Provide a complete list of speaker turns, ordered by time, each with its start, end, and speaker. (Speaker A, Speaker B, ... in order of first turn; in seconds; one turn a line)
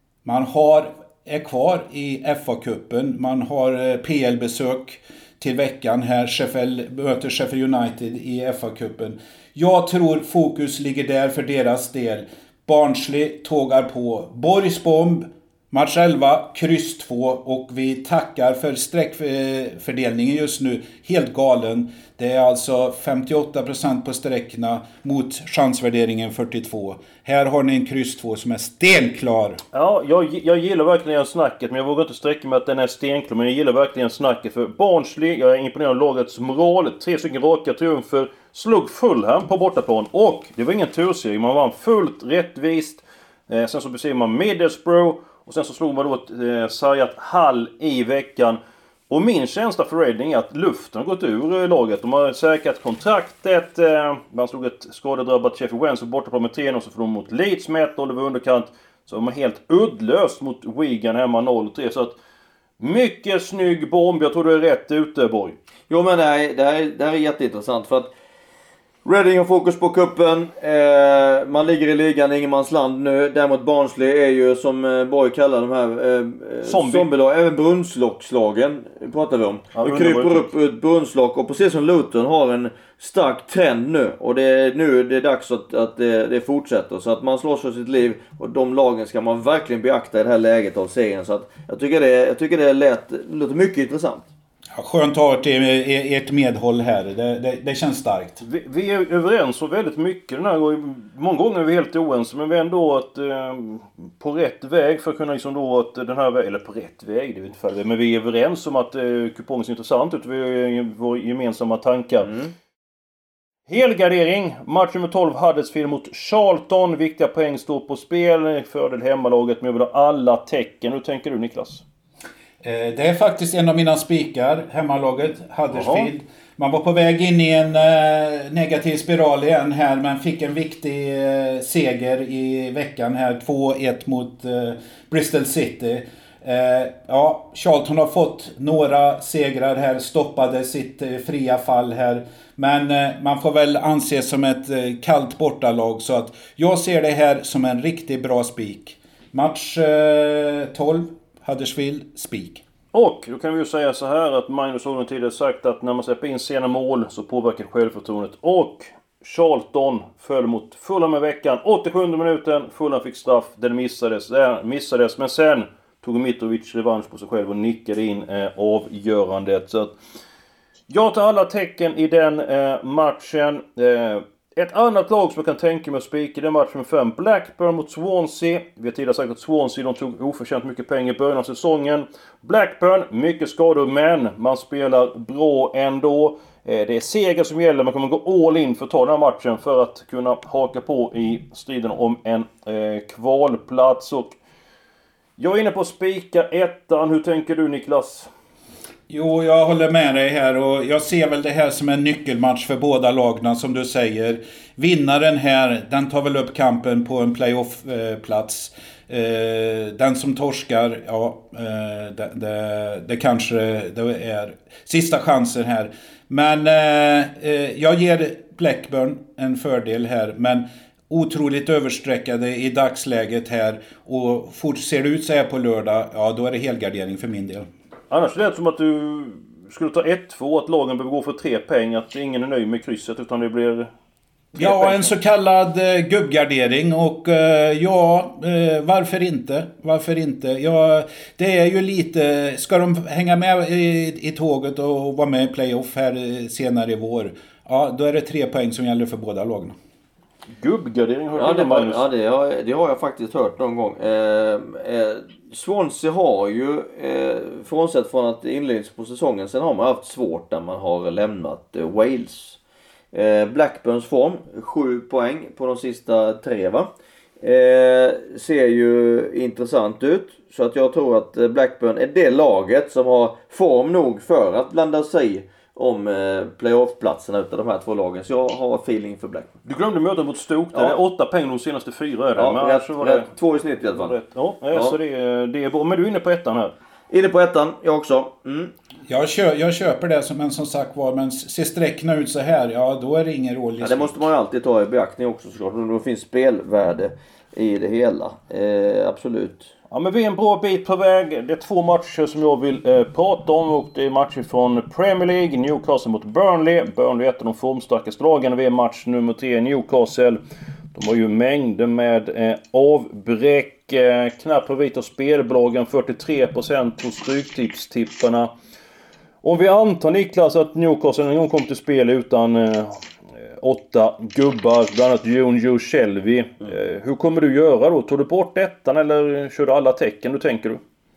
Speaker A: 0.2-29.6
Speaker B: 29.7-48.6
Speaker B: 49.1-62.2
Speaker B: 62.8-65.6
Speaker C: 65.9-68.1
Speaker C: 69.0-94.3
Speaker B: 76.7-77.1
Speaker B: 79.8-80.5
Speaker A: 94.7-98.4
Speaker B: 98.4-112.3
Speaker C: 112.2-112.5
Speaker B: 113.7-121.8
Speaker A: 122.6-152.6
Speaker B: 125.7-126.1
Speaker B: 152.9-169.9
Speaker B: 170.9-194.4
Speaker B: 195.4-198.3
Speaker A: 199.1-227.7
Speaker B: 228.1-233.9
Speaker B: 234.5-235.1
Speaker A: 234.6-249.8
Speaker B: 250.5-252.1
Speaker C: 251.4-262.6
Speaker C: 263.1-266.9
Speaker C: 267.4-279.6
Speaker B: 279.6-283.3
Speaker C: 282.4-284.2
Speaker B: 283.9-286.7
Speaker C: 287.1-288.7
Speaker A: 289.1-294.2
Speaker C: 293.8-299.7
Speaker B: 299.9-310.4
Speaker B: 310.9-318.5
Speaker B: 319.4-330.8